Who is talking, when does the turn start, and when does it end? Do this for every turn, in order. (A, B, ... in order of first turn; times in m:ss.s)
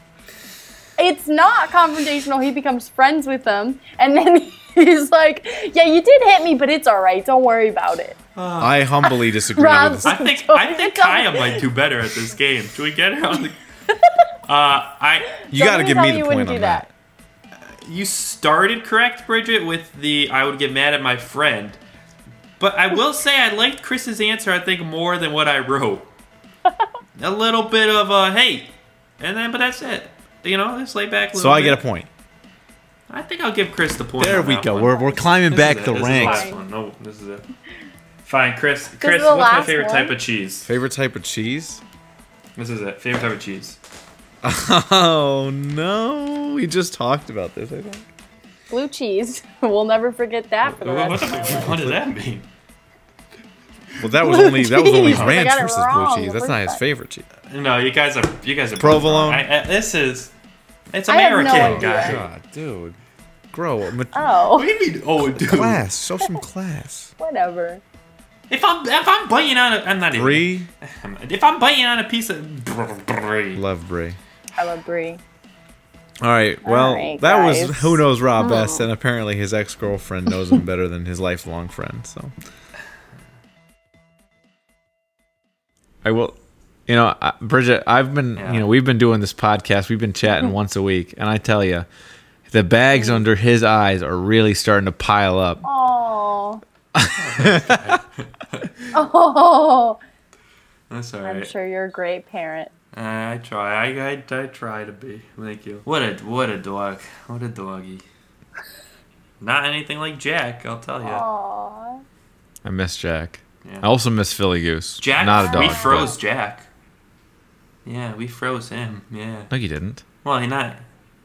0:01.0-0:08.2 A
0:08.4-0:08.8 B
0:08.6-0:10.1 C
0:09.0-0:11.6 A
0:10.0-0:13.6 B
0:14.5-0:15.4 B
0:15.4-0:16.9 A
0:15.5-0:16.9 C
0:17.8-0:21.8 B
0:22.6-0:26.1 B
0:27.2-0:31.8 B
0:31.3-0:32.1 C
0:33.1-0:37.4 B
0:34.2-0:36.5 C
0:36.0-0:36.6 A
0:38.2-0:40.7 B
0:39.0-0:40.2 A
0:40.7-0:41.8 C
0:42.6-0:43.8 B
0:44.4-0:48.0 C
0:48.7-0:51.7 A
0:50.8-0:52.5 B
0:51.1-0:52.0 C
0:54.0-0:57.3 C
0:54.2-0:56.8 A
0:57.5-1:00.3 B
0:58.8-0:59.5 C
1:00.9-1:02.2 B
1:01.1-1:02.2 A
1:01.5-1:03.0 C
1:03.5-1:04.4 C
1:04.1-1:04.7 A
1:04.5-1:05.8 B
1:05.3-1:07.1 C
1:07.2-1:07.8 A
1:08.5-1:13.6 B
1:10.1-1:10.7 C
1:13.6-1:14.2 C
1:14.6-1:15.2 A
1:16.2-1:22.3 C
1:16.6-1:18.9 A
1:26.0-1:31.9 C
1:28.4-1:28.7 B
1:32.5-1:35.6 C
1:32.9-1:33.2 A
1:35.6-1:36.6 A
1:37.0-1:38.0 C
1:37.2-1:38.8 B
1:38.9-1:40.0 A
1:40.9-1:41.5 B
1:41.2-1:42.7 A
1:42.9-1:48.0 B
1:49.4-1:51.2 B
1:51.0-1:52.0 A
1:52.6-1:56.1 C
1:55.0-1:56.7 B
1:55.4-1:56.2 A
1:57.8-1:59.5 B
1:59.5-2:00.0 C
2:00.2-2:00.8 B